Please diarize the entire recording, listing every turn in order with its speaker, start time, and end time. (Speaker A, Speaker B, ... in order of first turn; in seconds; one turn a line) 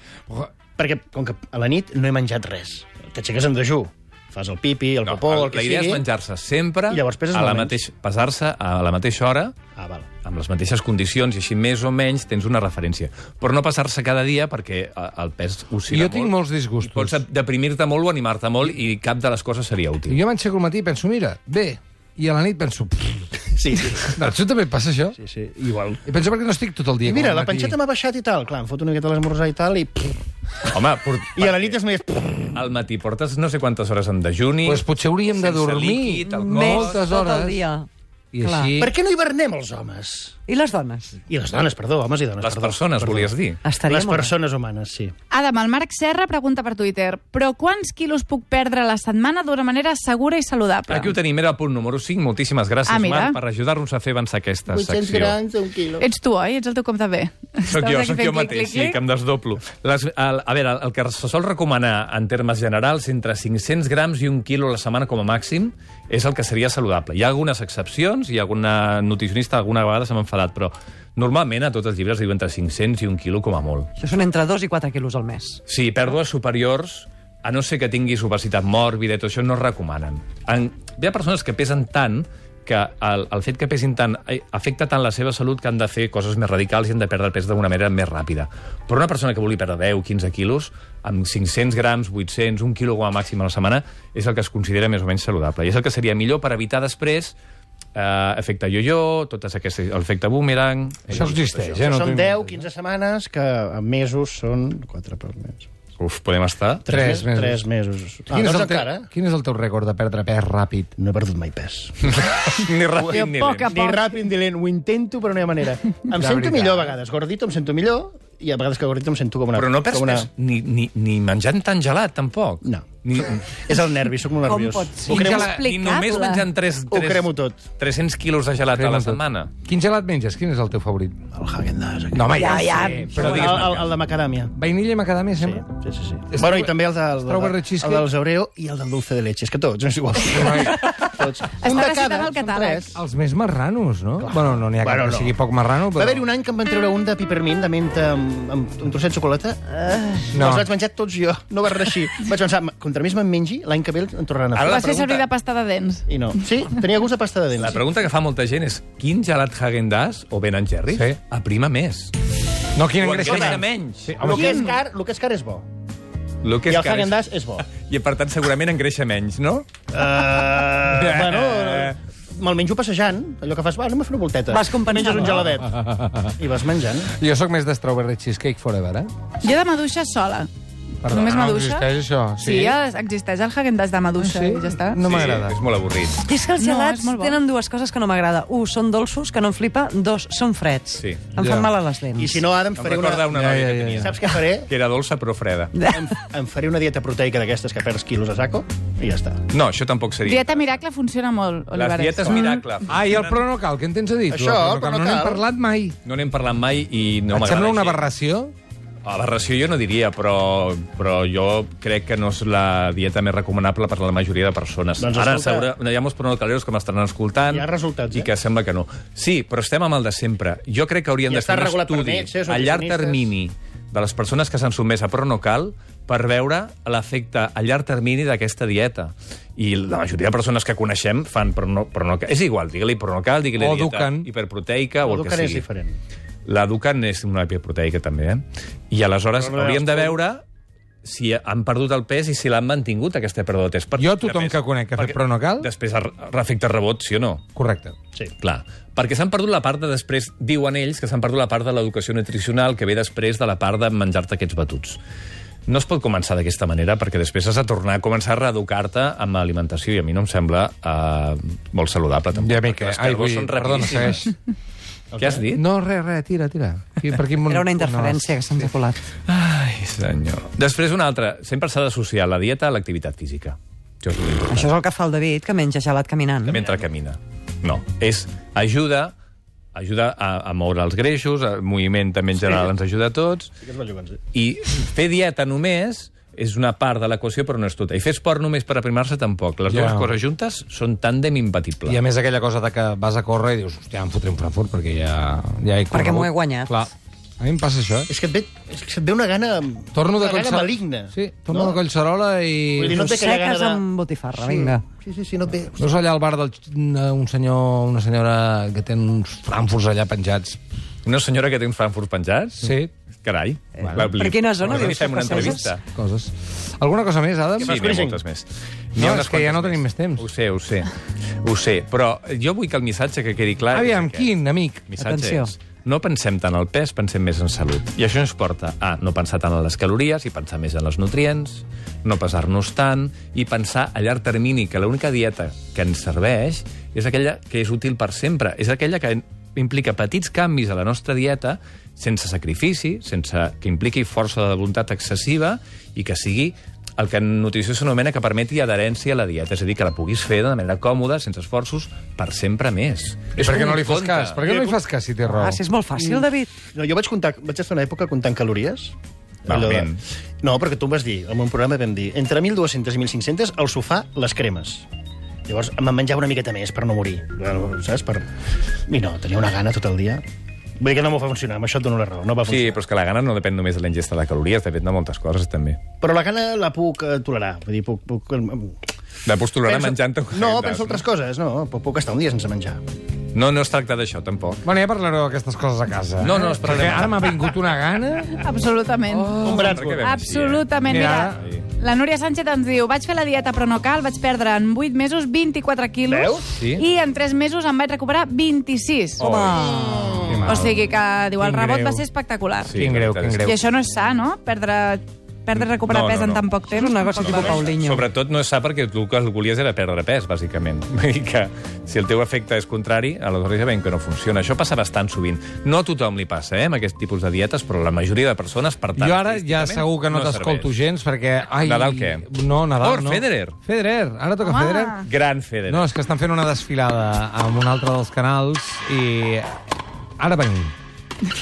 Speaker A: 0.8-6.0
Speaker B: 5.0-9.5
Speaker A: 6.9-7.8
Speaker A: 9.8-10.1
Speaker B: 10.2-20.2
Speaker C: 15.9-17.2
Speaker C: 20.1-23.3
Speaker A: 23.5-24.1
Speaker C: 24.1-25.2
Speaker A: 25.2-26.0
Speaker C: 26.1-27.8
Speaker A: 27.1-30.2
Speaker B: 30.7-31.8
Speaker A: 31.4-32.6
Speaker B: 32.5-37.1
Speaker C: 34.6-37.6
Speaker D: 36.3-37.9
Speaker C: 38.3-38.9
Speaker D: 38.4-38.8
Speaker A: 38.8-40.4
Speaker D: 40.5-41.1
Speaker A: 41.3-43.3
Speaker B: 42.4-43.6
Speaker D: 43.6-44.4
Speaker A: 43.8-45.1
Speaker E: 45.3-51.1
Speaker B: 50.9-55.4
Speaker E: 52.9-53.4
Speaker A: 54.7-56.1
Speaker E: 56.0-59.0
Speaker B: 57.6-73.9
Speaker D: 74.0-75.6
Speaker B: 75.7-97.4
Speaker B: 98.0-101.8
Speaker C: 101.1-102.7
Speaker A: 101.2-105.7
Speaker B: 106.0-106.9
Speaker A: 106.8-109.1
Speaker C: 106.9-107.6
Speaker C: 108.3-110.9
Speaker A: 111.0-112.1
Speaker B: 112.0-113.7
Speaker E: 113.0-114.2
Speaker A: 113.1-120.3
Speaker C: 116.1-117.0
Speaker B: 119.5-123.5
Speaker A: 123.5-125.6
Speaker D: 124.5-125.2
Speaker C: 125.1-125.5
Speaker B: 125.1-129.5
Speaker E: 125.2-126.5
Speaker A: 126.9-127.6
Speaker C: 128.7-131.2
Speaker A: 131.3-134.5
Speaker C: 132.1-133.8
Speaker E: 132.4-133.4
Speaker B: 133.2-133.9
Speaker C: 134.5-135.6
Speaker A: 135.4-143.0
Speaker C: 136.3-138.1
Speaker C: 140.3-140.9
Speaker E: 141.5-142.8
Speaker C: 142.9-146.2
Speaker A: 144.2-145.4
Speaker A: 145.9-154.9
Speaker C: 150.3-150.7
Speaker B: 154.6-155.3
Speaker E: 154.6-156.4
Speaker A: 156.1-157.8
Speaker B: 157.6-162.1
Speaker C: 160.9-161.2
Speaker C: 162.8-164.8
Speaker B: 163.0-164.6
Speaker A: 163.2-163.6
Speaker A: 164.2-165.7
Speaker B: 166.4-169.7
Speaker A: 166.7-167.7
Speaker A: 169.9-175.8
Speaker B: 170.6-171.9
Speaker D: 174.5-175.5
Speaker C: 175.6-176.3
Speaker A: 176.4-177.1
Speaker C: 177.1-179.1
Speaker E: 179.4-180.5
Speaker C: 181.0-182.8
Speaker E: 181.1-181.9
Speaker E: 182.4-185.0
Speaker C: 184.2-185.6
Speaker B: 185.0-186.2
Speaker D: 186.2-192.4
Speaker E: 186.6-187.4
Speaker B: 190.9-191.3
Speaker C: 191.4-191.7
Speaker A: 192.2-193.3
Speaker B: 192.8-195.7
Speaker C: 193.3-194.2
Speaker A: 194.0-194.7
Speaker D: 195.8-196.1
Speaker A: 195.9-199.4
Speaker B: 199.5-200.8
Speaker E: 200.2-202.7
Speaker B: 201.7-203.4
Speaker C: 202.9-206.0
Speaker A: 204.3-205.4
Speaker B: 206.1-208.0
Speaker C: 207.3-208.5
Speaker B: 209.1-235.6
Speaker A: 215.0-215.7
Speaker A: 217.5-218.3
Speaker A: 221.3-223.3
Speaker C: 233.6-234.3
Speaker A: 235.0-236.0
Speaker B: 236.5-240.4
Speaker A: 239.3-240.2
Speaker B: 241.0-247.4
Speaker C: 244.0-245.7
Speaker C: 247.6-247.9
Speaker B: 248.4-255.0
Speaker B: 255.7-264.3
Speaker C: 262.4-264.3
Speaker A: 265.1-265.4
Speaker B: 265.2-265.6
Speaker C: 265.5-268.7
Speaker D: 267.4-269.0
Speaker B: 269.3-274.7
Speaker D: 274.5-276.6
Speaker B: 276.5-279.1
Speaker B: 279.8-283.5
Speaker A: 283.6-284.2
Speaker B: 284.3-292.0
Speaker C: 289.7-290.1
Speaker C: 291.9-298.1
Speaker D: 295.9-296.8
Speaker A: 298.1-301.8
Speaker C: 299.9-303.0
Speaker A: 302.8-303.8
Speaker D: 302.9-304.8
Speaker A: 304.4-305.9
Speaker C: 305.8-310.6
Speaker B: 311.1-315.8
Speaker C: 312.6-312.9
Speaker D: 313.8-315.7
Speaker C: 313.8-314.1
Speaker C: 314.8-317.9
Speaker A: 317.6-318.2
Speaker B: 317.6-324.3
Speaker C: 319.0-320.3
Speaker C: 323.7-324.9
Speaker B: 324.9-354.4
Speaker D: 325.0-325.5
Speaker C: 353.4-355.6
Speaker A: 354.4-354.8
Speaker D: 355.2-356.5
Speaker A: 356.0-358.9
Speaker B: 359.5-360.0
Speaker A: 359.5-364.9
Speaker A: 365.5-368.3
Speaker A: 368.9-370.2
Speaker A: 370.8-372.8
Speaker B: 372.5-375.8
Speaker A: 376.0-378.8
Speaker B: 379.2-381.1
Speaker A: 379.6-382.8
Speaker B: 383.3-384.6
Speaker C: 384.6-388.4
Speaker B: 386.2-387.3
Speaker E: 388.3-399.3
Speaker C: 389.1-390.0
Speaker A: 389.4-390.0
Speaker B: 389.6-390.7
Speaker C: 390.9-391.4
Speaker B: 391.4-391.7
Speaker A: 396.1-396.4
Speaker B: 396.5-396.9
Speaker B: 399.2-399.7
Speaker D: 399.2-400.2
Speaker A: 399.7-400.4
Speaker C: 400.3-400.8
Speaker E: 400.5-402.7
Speaker C: 401.4-402.0
Speaker B: 402.6-403.6
Speaker C: 402.7-403.6
Speaker E: 403.4-407.6
Speaker B: 405.8-406.4
Speaker D: 406.7-408.1
Speaker B: 407.2-420.7
Speaker C: 419.0-425.0
Speaker B: 421.6-422.3
Speaker B: 422.8-423.6
Speaker E: 424.4-425.0
Speaker B: 425.0-425.9
Speaker C: 425.7-429.5
Speaker C: 430.2-430.7